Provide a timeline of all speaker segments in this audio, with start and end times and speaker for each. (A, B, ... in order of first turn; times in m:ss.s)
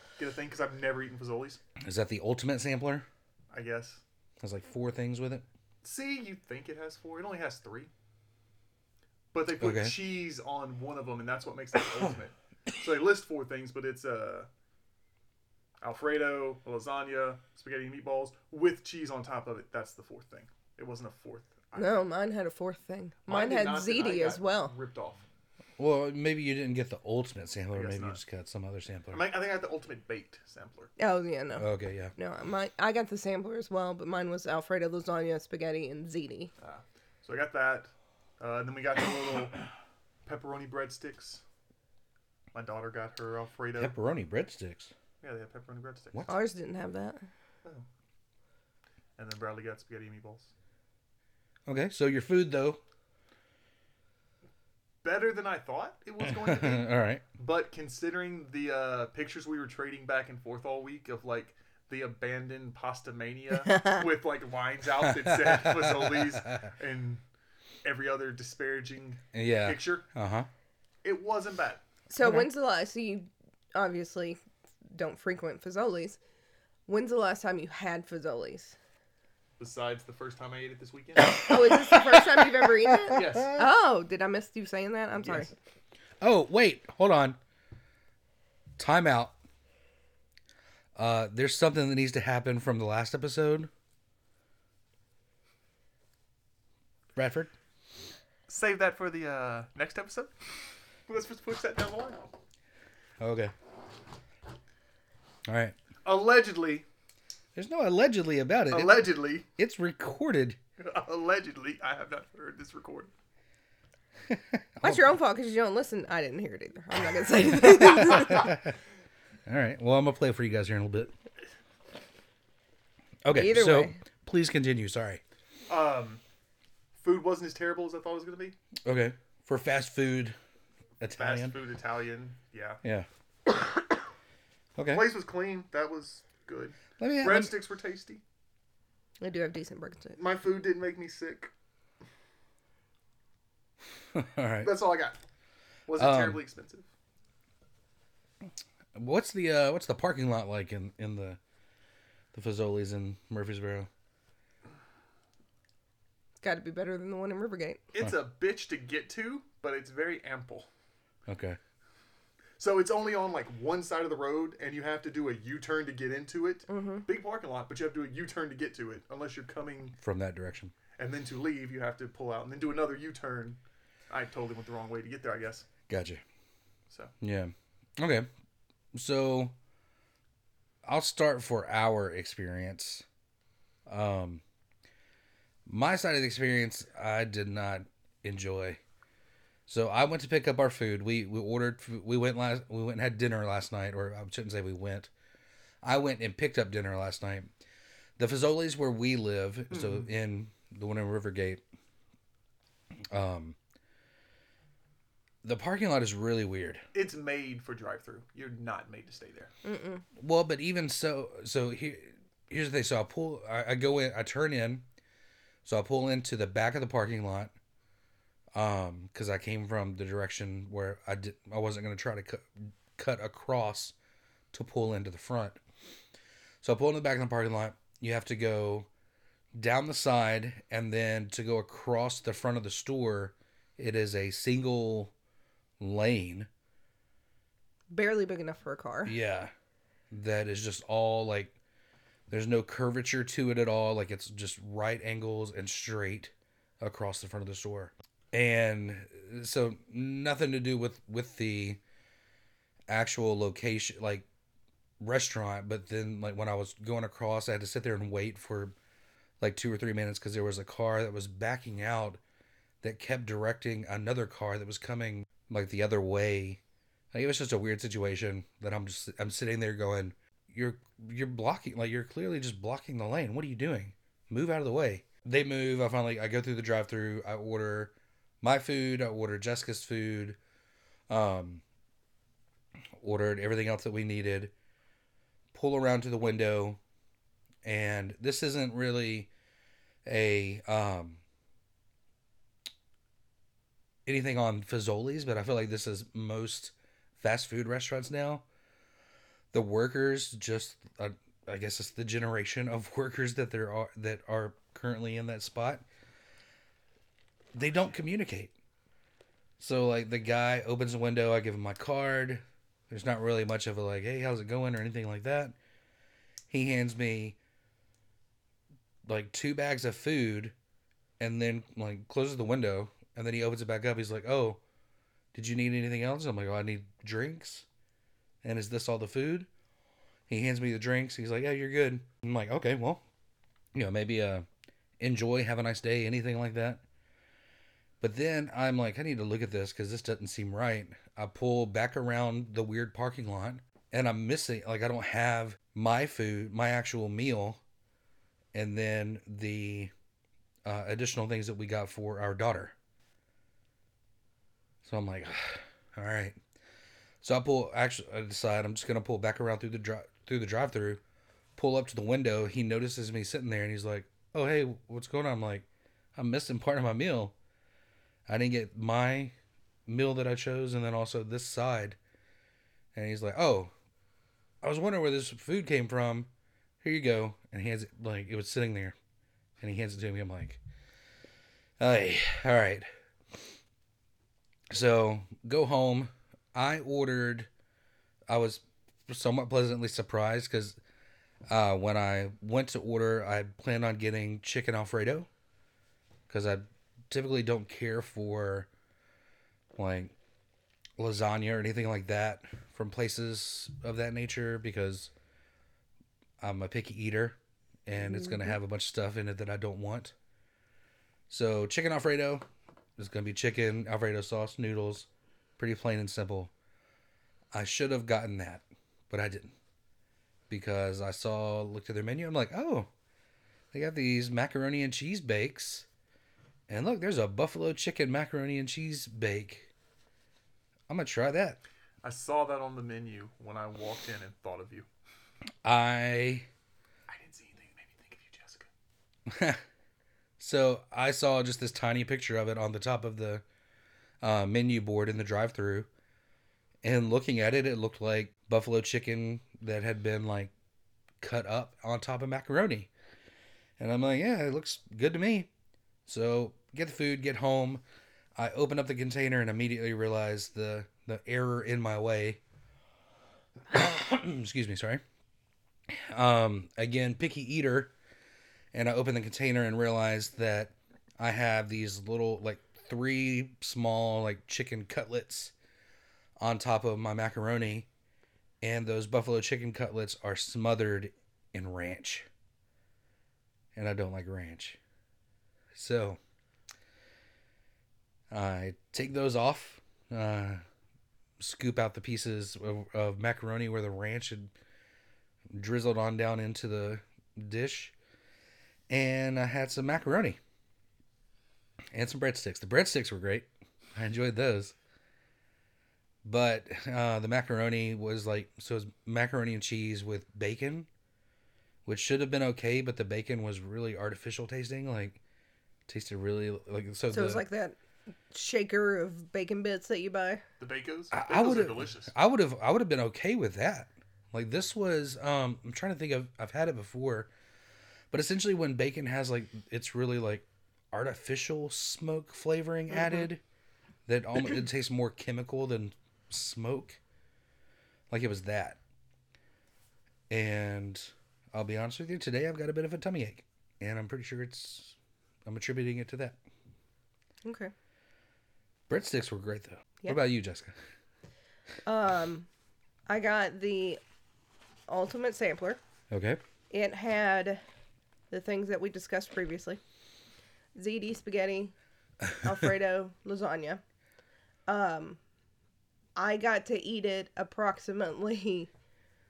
0:00.2-0:01.6 A
0:01.8-0:03.0 B
0:03.5-0:04.0 A
0:04.4-0:05.4 B
0:05.8-0:07.9 A
0:09.3-0:14.5 A
0:09.6-0:10.0 B
0:15.8-0:22.0 A
0:21.7-0:24.7 C
0:23.2-0:25.2 A
0:25.8-0:29.3 B
0:27.7-0:28.2 A
0:29.1-0:30.9 A
0:31.0-0:36.5 C
0:31.6-0:32.1 B
0:36.6-0:39.6 A
0:40.2-0:41.4 A
0:42.5-0:43.9 A
0:43.8-0:44.9 B
0:45.2-0:46.3 A
0:46.3-0:47.2 C
0:49.2-0:50.5 A
0:51.7-0:52.8 B
0:55.0-1:07.2 A
0:56.2-0:57.2 B
1:03.6-1:04.1 C
1:05.0-1:06.7 B
1:07.8-1:10.0 A
1:09.3-1:10.5 B
1:11.0-1:12.3 A
1:12.1-1:14.4 C
1:14.9-1:16.2 C
1:16.9-1:18.8 C
1:19.6-1:22.4 A
1:21.3-1:25.5 C
1:23.1-1:23.6 A
1:25.2-1:25.5 A
1:26.2-1:27.4 B
1:28.8-1:29.3 B
1:31.0-1:33.7 B
1:37.2-1:37.5 B
1:38.5-1:40.3 A
1:41.1-1:42.3 A
1:43.2-1:43.5 B
1:45.5-1:45.7 B
1:46.0-1:46.9 A
1:47.5-1:50.6 B
1:48.7-1:49.4 A
1:50.8-1:53.1 A
1:54.3-1:55.1 B
1:54.8-1:58.5 C
1:57.8-1:58.7 B
1:59.5-2:01.1 B
2:03.2-2:05.2 B
2:03.3-2:04.0 C
2:05.7-2:06.2 A
2:07.0-2:08.6 A
2:08.8-2:10.4 B
2:11.0-2:11.6 B
2:11.1-2:12.8 A
2:14.8-2:15.1 B
2:14.9-2:18.2 A
2:17.0-2:17.6 B
2:19.2-2:20.2 C
2:20.2-2:21.5 A
2:24.1-2:24.8 B
2:24.6-2:25.2 A
2:25.9-2:26.9 A
2:26.0-2:26.4 B
2:28.9-2:31.4 B
2:32.3-2:33.9 B
2:36.4-2:37.8 C
2:37.9-2:40.7 A
2:41.3-2:41.6 B
2:42.6-2:50.0 A
2:46.7-2:47.1 C
2:50.0-2:50.7 B
2:51.0-2:55.6 A
2:55.9-2:56.2 B
2:57.2-2:58.3 B
2:58.9-2:59.5 B
3:00.8-3:03.0 B
3:03.9-3:04.4 B
3:05.6-3:08.8 B
3:09.7-3:15.1 B
3:15.8-3:17.5 B
3:18.2-3:21.6 B
3:19.7-3:20.0 A
3:23.1-3:23.6 B
3:25.4-3:26.8 B
3:26.9-3:29.5 A
3:29.6-3:30.0 C
3:30.2-3:34.8 B
3:35.6-3:37.5 B
3:38.5-3:43.9 B
3:44.5-3:45.6 B
3:46.6-3:48.9 B
3:49.6-3:55.1 B
3:55.8-3:56.5 B
3:57.9-3:59.1 C
3:59.0-3:59.5 B
4:00.1-4:01.5 B
4:02.3-4:11.8 B
4:12.9-4:14.2 B
4:15.0-4:18.7 B
4:19.4-4:22.2 B
4:22.8-4:26.6 B
4:27.1-4:40.4 B
4:41.1-4:41.6 B
4:43.0-4:44.5 B
4:45.5-4:46.8 B
4:47.6-4:49.3 B
4:50.0-4:51.2 B
4:54.0-4:58.4 B
4:59.5-5:05.8 B
5:07.5-5:08.5 B
5:09.6-5:15.5 B
5:16.5-5:17.4 B
5:19.0-5:20.5 B
5:21.2-5:24.6 B
5:25.3-5:27.6 B
5:28.4-5:29.5 B
5:30.3-5:33.0 B
5:33.7-5:34.4 B
5:35.0-5:36.8 B
5:38.0-5:47.6 B
5:48.5-5:49.9 B
5:50.6-5:52.7 B
5:54.8-5:56.4 B
5:57.2-6:01.0 B
6:01.6-6:07.3 B
6:08.3-6:09.3 B
6:09.9-6:12.0 B
6:12.9-6:13.7 B
6:14.6-6:16.3 B
6:16.8-6:19.0 B
6:19.6-6:20.6 B
6:21.8-6:22.9 B
6:24.7-6:27.5 B
6:28.3-6:30.8 B
6:31.5-6:35.3 B
6:36.3-6:38.7 B
6:39.8-6:40.1 B
6:41.0-6:45.1 B
6:46.4-6:50.1 B
6:48.2-6:48.5 C
6:51.3-6:52.4 B
6:53.0-6:56.5 B
6:57.5-6:59.5 B
7:00.5-7:02.9 B
7:03.7-7:05.9 B
7:06.7-7:09.7 B
7:10.9-7:11.6 B
7:12.0-7:14.9 A
7:15.6-7:16.5 B
7:17.1-7:18.7 A
7:19.3-7:19.6 B
7:20.4-7:23.4 B
7:24.2-7:25.9 B
7:26.8-7:30.5 B
7:31.2-7:32.9 B
7:33.8-7:35.5 B
7:36.1-7:37.8 B
7:38.4-7:42.4 B
7:43.7-7:45.0 B
7:45.9-7:47.9 B
7:48.7-7:55.5 B
7:56.4-7:57.9 B
7:58.6-8:02.3 B
8:03.7-8:04.8 B
8:05.7-8:06.2 B
8:08.3-8:10.6 B
8:11.4-8:14.5 B
8:15.5-8:17.9 B
8:18.9-8:20.4 B
8:21.9-8:24.7 B
8:26.2-8:30.9 B
8:31.8-8:35.2 B
8:35.9-8:37.4 B
8:37.1-8:37.8 C
8:38.3-8:40.4 C
8:40.6-8:42.1 A
8:41.1-8:47.3 B
8:48.1-8:53.4 B
8:54.1-8:57.0 B
8:58.1-8:58.8 B
9:00.3-9:06.4 B
9:07.4-9:07.7 C
9:08.9-9:10.7 B
9:11.8-9:12.5 C
9:13.1-9:14.0 C
9:14.9-9:15.8 C
9:16.1-9:16.4 B
9:16.7-9:17.6 C
9:18.3-9:19.8 C
9:20.7-9:21.7 C
9:22.4-9:23.8 C
9:24.7-9:25.2 C
9:26.2-9:28.7 C